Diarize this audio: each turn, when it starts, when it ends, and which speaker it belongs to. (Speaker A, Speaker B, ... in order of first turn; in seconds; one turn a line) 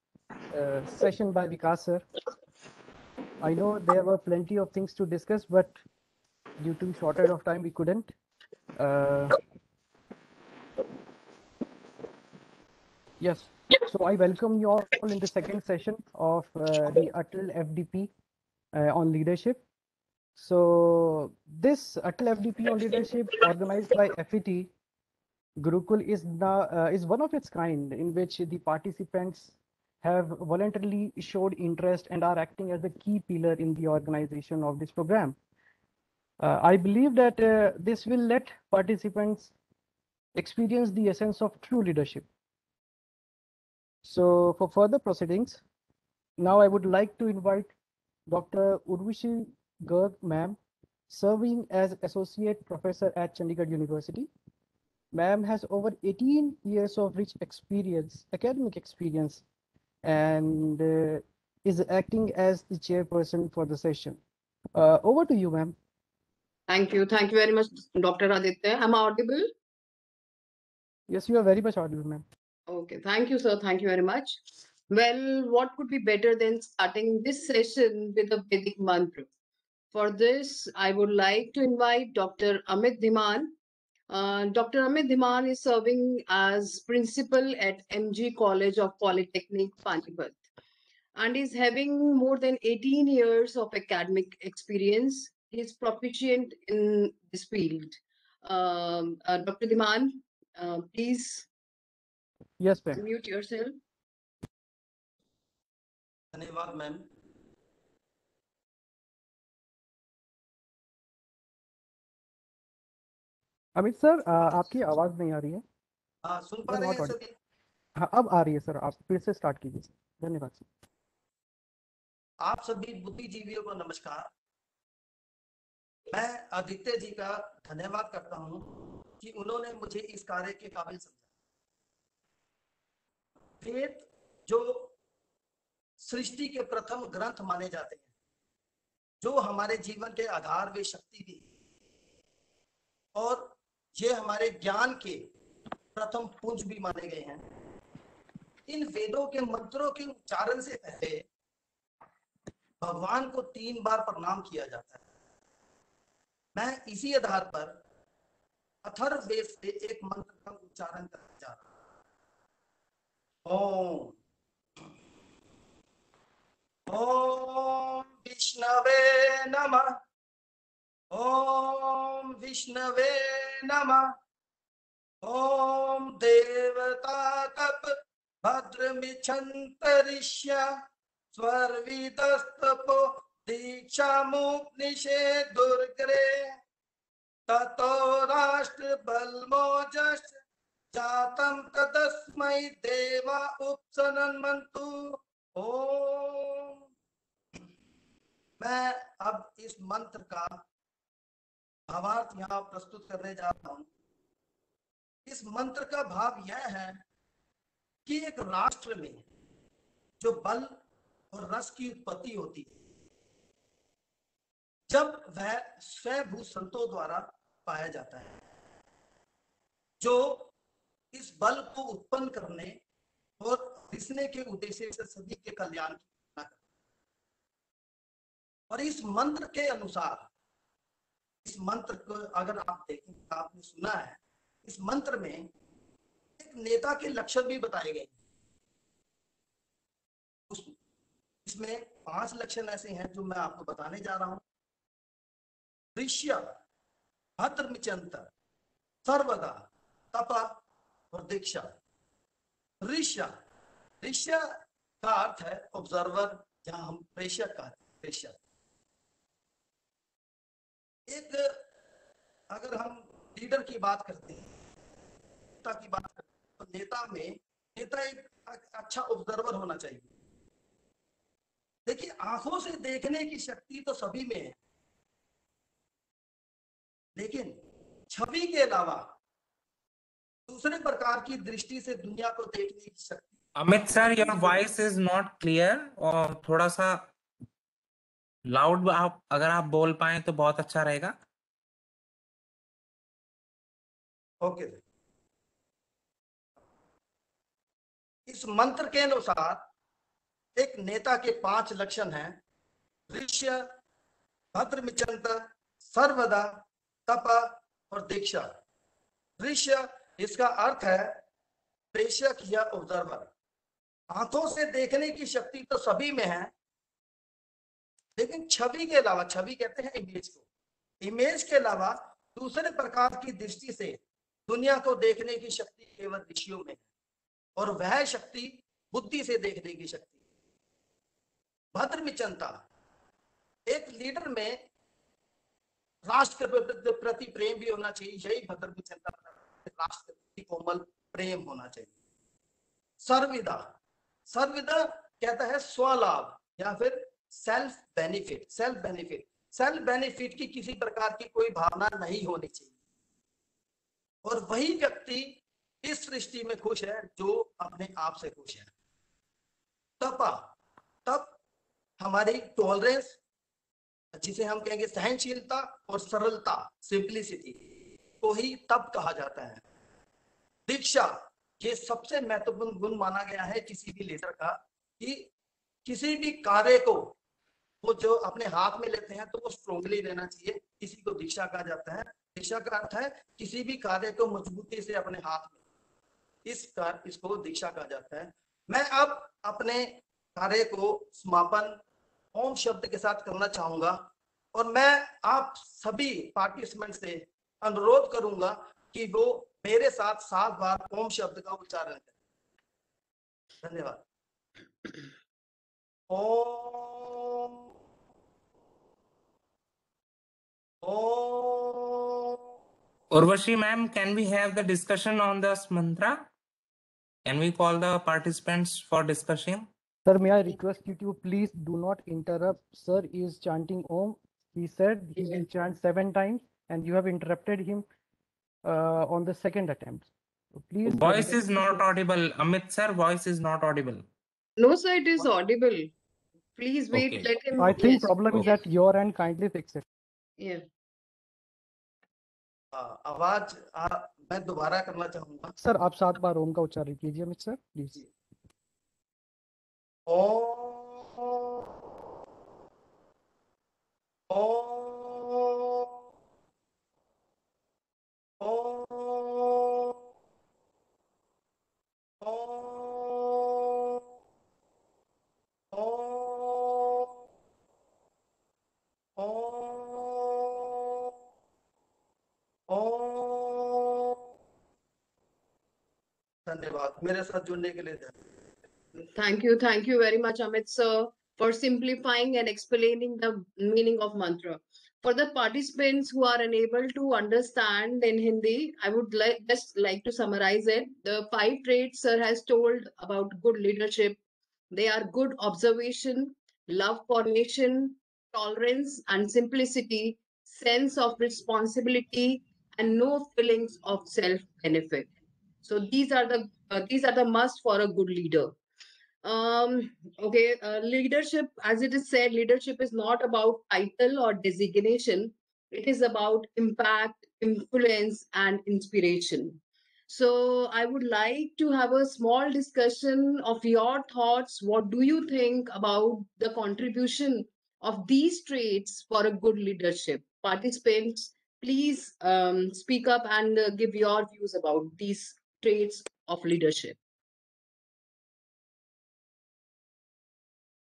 Speaker A: 0.5-2.0
Speaker A: 3.4-5.8
Speaker A: 6.6-8.1
Speaker A: 8.8-9.4
Speaker A: 13.2-18.1
Speaker A: 18.7-19.6
Speaker A: 20.4-24.7
Speaker A: 25.6-35.4
Speaker A: 36.4-39.5
Speaker A: 40.4-42.3
Speaker A: 44.0-45.6
Speaker A: 46.4-47.7
Speaker A: 48.3-50.6
Speaker A: 51.1-54.3
Speaker A: 55.1-59.4
Speaker A: 60.0-64.2
Speaker A: 64.7-65.7
Speaker B: 66.7-69.5
Speaker A: 71.1-72.2
Speaker B: 72.7-74.4
Speaker B: 74.9-79.3
Speaker B: 79.9-83.5
Speaker B: 84.1-90.4
Speaker B: 91.2-101.5
Speaker A: 102.6-103.0
Speaker B: 102.9-103.8
Speaker C: 106.3-107.0
Speaker A: 113.8-115.6
Speaker C: 116.2-117.3
Speaker A: 116.7-117.1
Speaker A: 118.0-120.6
Speaker C: 122.4-124.3
Speaker C: 126.1-128.6
Speaker C: 129.2-131.2
Speaker C: 133.6-134.9
Speaker C: 136.0-138.1
Speaker C: 139.2-141.4
Speaker C: 143.2-145.3
Speaker C: 145.9-147.4
Speaker C: 148.7-151.2
Speaker C: 152.8-155.0
Speaker C: 156.6-157.7
Speaker C: 158.8-161.6
Speaker C: 163.4-164.2
Speaker C: 166.9-169.9
Speaker C: 171.1-174.1
Speaker C: 175.2-180.6
Speaker C: 181.3-186.5
Speaker C: 187.5-190.4
Speaker C: 190.9-196.8
Speaker C: 198.6-200.6
Speaker C: 201.9-203.8
Speaker C: 205.2-207.0
Speaker C: 208.1-209.2
Speaker C: 210.2-210.8
Speaker C: 211.3-212.7
Speaker C: 214.9-218.4
Speaker C: 220.0-220.5
Speaker C: 221.1-222.8
Speaker C: 223.4-226.6
Speaker C: 228.7-230.2
Speaker C: 231.4-235.5
Speaker C: 236.4-238.1
Speaker C: 240.5-240.8
Speaker C: 241.4-244.4
Speaker C: 245.9-246.4
Speaker C: 247.4-248.3
Speaker C: 249.0-250.6
Speaker C: 251.1-251.7
Speaker C: 252.8-253.3
Speaker C: 254.0-254.4
Speaker C: 255.0-258.4
Speaker C: 261.1-261.6
Speaker C: 262.5-264.5
Speaker C: 265.6-270.1
Speaker C: 271.9-274.5
Speaker C: 277.1-277.5
Speaker C: 278.1-279.1
Speaker C: 280.5-284.6
Speaker D: 283.6-287.0
Speaker D: 288.5-291.1
Speaker C: 294.4-294.8
Speaker C: 298.3-299.6
Speaker C: 300.6-302.4
Speaker C: 303.1-303.6
Speaker C: 304.5-308.5
Speaker C: 309.4-311.2
Speaker C: 311.9-313.3
Speaker C: 314.1-316.5
Speaker C: 318.2-320.4
Speaker C: 321.0-324.0
Speaker C: 324.5-326.8
Speaker C: 327.6-330.1
Speaker C: 331.7-332.6
Speaker C: 333.7-334.6
Speaker C: 336.1-341.9
Speaker C: 343.0-343.6
Speaker C: 344.3-352.7
Speaker C: 354.2-358.7
Speaker C: 360.0-360.5
Speaker C: 361.1-361.3
Speaker C: 362.0-363.2
Speaker C: 364.1-367.6
Speaker C: 368.2-369.6
Speaker C: 370.7-375.3
Speaker C: 375.9-377.1
Speaker C: 377.8-385.6
Speaker C: 386.4-391.8
Speaker C: 392.3-402.1
Speaker C: 403.6-404.0
Speaker C: 406.1-407.6
Speaker C: 410.8-412.5
Speaker D: 413.1-416.3
Speaker D: 417.2-419.7
Speaker A: 420.1-427.9
Speaker B: 425.1-425.4
Speaker A: 428.6-431.9
Speaker D: 430.8-434.0
Speaker B: 434.6-435.9
Speaker B: 436.6-438.5
Speaker D: 436.9-437.2
Speaker A: 437.6-439.8
Speaker B: 440.4-440.6
Speaker C: 442.7-445.5
Speaker A: 445.6-448.0
Speaker C: 450.1-451.7
Speaker C: 454.3-456.0
Speaker C: 458.4-460.0
Speaker C: 462.2-464.1
Speaker C: 465.7-467.2
Speaker C: 469.2-471.2
Speaker C: 472.7-474.2
Speaker C: 476.4-478.2
Speaker B: 479.1-494.2
Speaker B: 494.7-505.1
Speaker B: 505.6-508.5
Speaker B: 509.2-537.0